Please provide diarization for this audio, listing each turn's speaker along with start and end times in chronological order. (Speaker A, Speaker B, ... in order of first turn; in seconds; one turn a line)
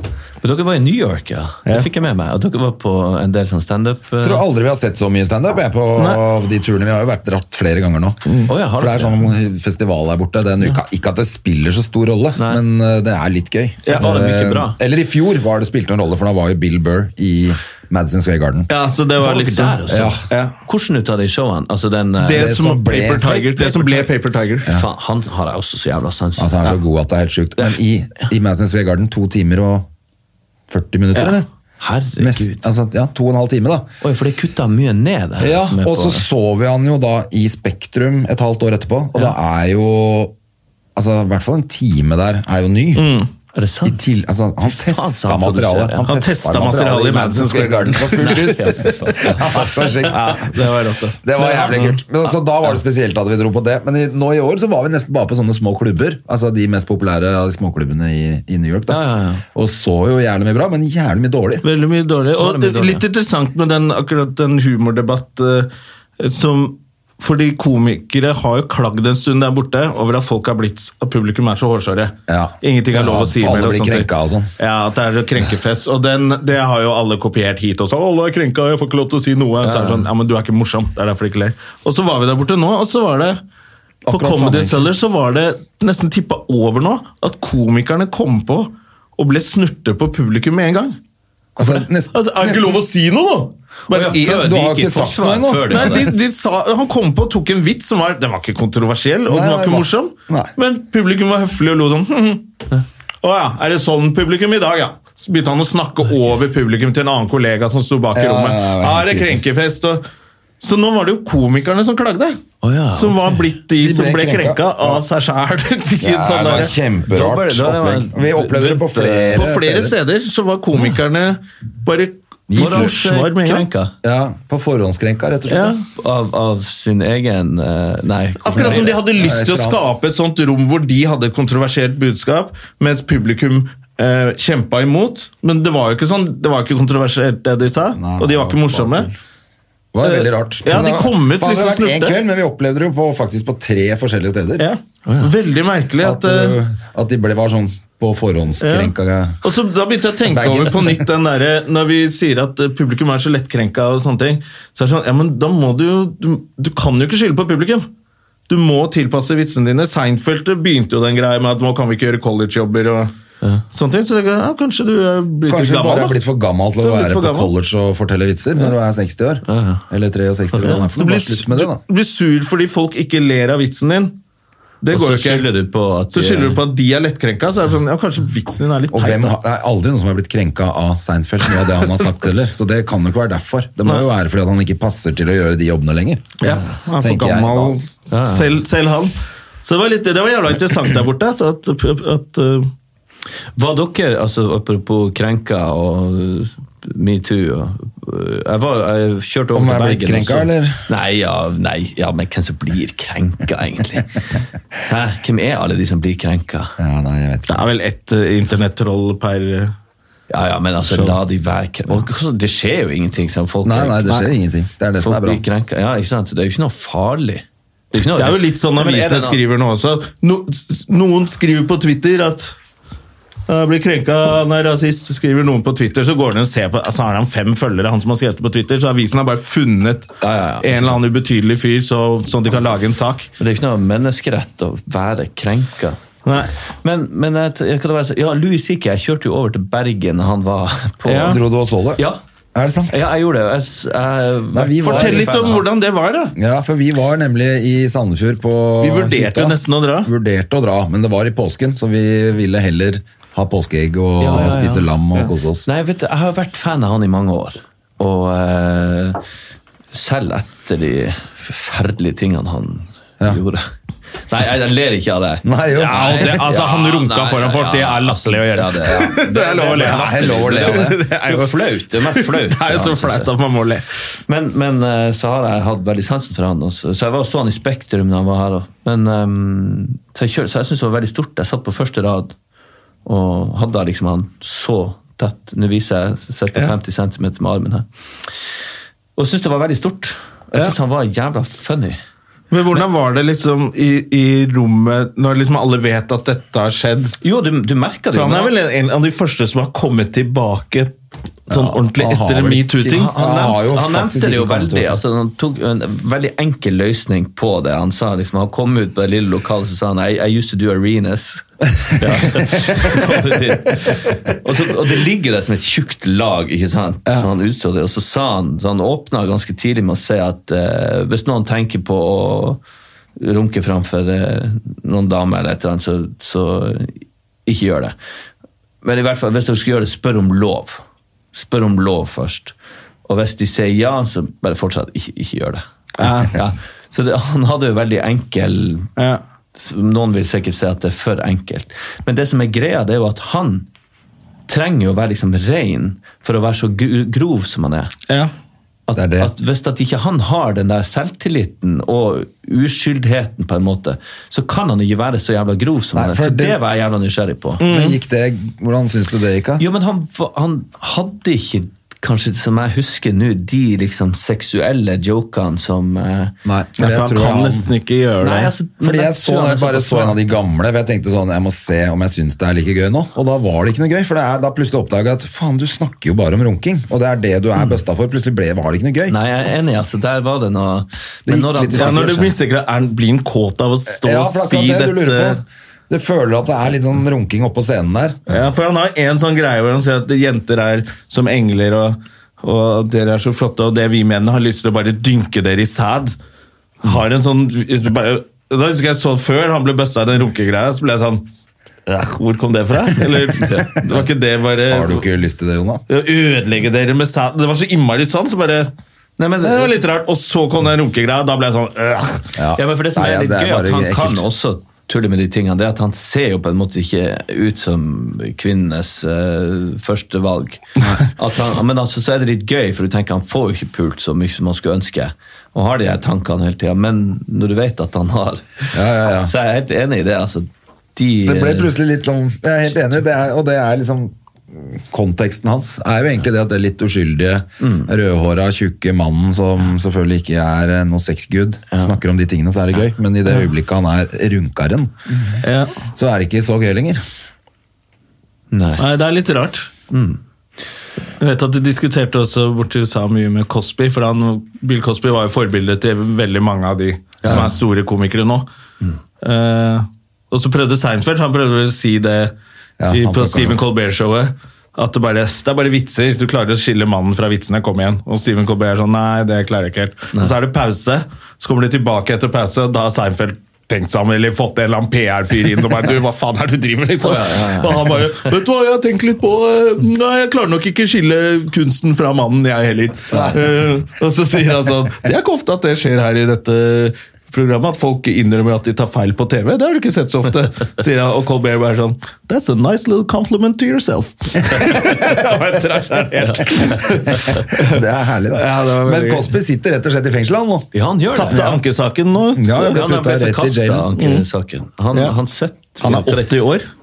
Speaker A: 0.4-4.4
Speaker B: 4.2-18.7
Speaker C: 6.0-6.2
Speaker C: 8.3-8.5
Speaker A: 8.5-9.2
Speaker A: 12.4-12.6
Speaker A: 13.9-14.8
Speaker C: 18.7-20.6
Speaker A: 19.2-22.6
Speaker B: 19.9-20.2
Speaker C: 22.2-24.7
Speaker B: 22.3-23.4
Speaker A: 23.2-24.1
Speaker A: 24.7-26.8
Speaker B: 26.4-29.9
Speaker B: 30.7-31.4
Speaker A: 31.2-32.7
Speaker B: 32.2-33.9
Speaker A: 34.0-36.3
Speaker B: 35.4-40.3
Speaker B: 41.0-43.1
Speaker C: 43.0-43.3
Speaker A: 43.5-44.0
Speaker B: 43.9-50.5
Speaker A: 44.7-46.1
Speaker C: 46.0-48.4
Speaker A: 48.1-50.1
Speaker C: 50.1-51.8
Speaker B: 51.2-61.6
Speaker A: 51.4-52.3
Speaker A: 58.9-59.4
Speaker C: 61.6-83.4
Speaker A: 62.4-63.0
Speaker B: 72.3-74.5
Speaker A: 73.0-73.7
Speaker A: 79.6-80.1
Speaker B: 84.0-84.9
Speaker C: 84.1-91.0
Speaker B: 91.6-92.6
Speaker C: 91.6-94.5
Speaker A: 93.9-96.1
Speaker B: 94.2-96.0
Speaker C: 95.7-102.5
Speaker B: 99.3-100.5
Speaker C: 103.2-110.0
Speaker B: 108.1-109.4
Speaker C: 110.6-112.4
Speaker A: 112.6-113.3
Speaker C: 112.9-116.8
Speaker B: 113.8-115.0
Speaker B: 116.0-120.0
Speaker A: 117.1-119.4
Speaker C: 119.4-123.7
Speaker B: 122.5-122.9
Speaker A: 122.6-123.9
Speaker B: 124.0-125.8
Speaker C: 125.5-125.8
Speaker A: 126.0-129.0
Speaker C: 128.5-139.1
Speaker B: 128.5-129.9
Speaker B: 138.0-139.1
Speaker B: 139.9-144.7
Speaker C: 140.1-142.2
Speaker C: 144.6-146.6
Speaker B: 146.0-149.4
Speaker C: 148.6-157.9
Speaker B: 150.3-151.1
Speaker C: 158.5-163.1
Speaker C: 163.7-166.2
Speaker B: 165.5-171.8
Speaker C: 166.8-167.5
Speaker A: 169.5-169.8
Speaker C: 170.7-174.1
Speaker C: 174.8-175.5
Speaker A: 174.9-176.6
Speaker C: 176.1-179.3
Speaker B: 178.9-186.4
Speaker C: 186.4-192.7
Speaker B: 187.0-187.8
Speaker A: 188.1-188.6
Speaker A: 193.6-206.8
Speaker B: 199.5-200.8
Speaker B: 206.8-207.7
Speaker C: 207.5-209.7
Speaker A: 210.3-214.1
Speaker C: 210.8-211.2
Speaker B: 213.7-215.4
Speaker A: 215.0-219.4
Speaker C: 218.0-222.5
Speaker C: 223.5-233.3
Speaker A: 230.2-231.0
Speaker A: 233.4-236.0
Speaker C: 236.2-236.5
Speaker A: 236.8-241.4
Speaker C: 241.1-241.4
Speaker B: 241.2-242.0
Speaker B: 242.6-243.0
Speaker A: 242.9-245.6
Speaker B: 244.5-245.3
Speaker C: 244.8-246.3
Speaker B: 246.4-255.7
Speaker C: 248.8-250.1
Speaker A: 254.2-254.9
Speaker A: 255.7-259.2
Speaker A: 259.9-263.6
Speaker A: 264.2-273.3
Speaker B: 265.4-266.4
Speaker C: 265.7-273.9
Speaker B: 269.7-271.0
Speaker A: 274.3-282.3
Speaker A: 283.1-287.9
Speaker A: 289.2-292.0
Speaker C: 292.5-297.2
Speaker A: 297.2-298.5
Speaker C: 298.1-300.9
Speaker C: 301.5-303.1
Speaker B: 301.6-305.0
Speaker A: 302.9-322.6
Speaker B: 312.1-312.8
Speaker A: 323.2-327.9
Speaker A: 328.8-330.8
Speaker A: 331.3-332.5
Speaker A: 333.1-335.6
Speaker C: 336.0-336.4
Speaker A: 336.2-338.9
Speaker A: 339.6-343.7
Speaker A: 344.5-347.9
Speaker A: 348.9-357.6
Speaker B: 348.9-349.3
Speaker B: 355.9-356.6
Speaker C: 357.6-358.0
Speaker B: 357.7-359.6
Speaker A: 359.6-366.3
Speaker B: 366.4-367.7
Speaker C: 366.8-368.5
Speaker A: 368.2-370.2
Speaker B: 368.8-379.2
Speaker A: 379.1-382.3
Speaker B: 381.3-382.3
Speaker C: 381.8-385.4
Speaker B: 383.9-388.4
Speaker C: 388.3-396.2
Speaker C: 396.8-401.2
Speaker C: 401.9-405.1
Speaker B: 404.7-405.8
Speaker C: 405.9-408.7
Speaker A: 409.2-409.8
Speaker C: 409.4-412.3
Speaker B: 412.4-414.2
Speaker A: 412.6-431.7
Speaker B: 428.7-429.3
Speaker B: 431.2-445.1
Speaker A: 437.6-437.9
Speaker A: 441.7-442.0
Speaker C: 445.4-445.7
Speaker B: 445.9-447.0
Speaker A: 448.5-448.8
Speaker C: 448.8-449.7
Speaker A: 449.9-450.2
Speaker C: 451.2-458.5
Speaker A: 457.2-457.5
Speaker C: 459.2-462.3
Speaker B: 462.8-463.6
Speaker C: 462.9-497.8
Speaker A: 477.0-478.0
Speaker B: 483.1-483.5
Speaker B: 497.1-500.7
Speaker C: 498.3-499.3
Speaker A: 500.7-501.4
Speaker C: 501.1-502.9
Speaker B: 501.3-501.6
Speaker B: 502.4-503.9
Speaker A: 502.7-506.3
Speaker C: 504.0-504.2
Speaker C: 505.8-506.7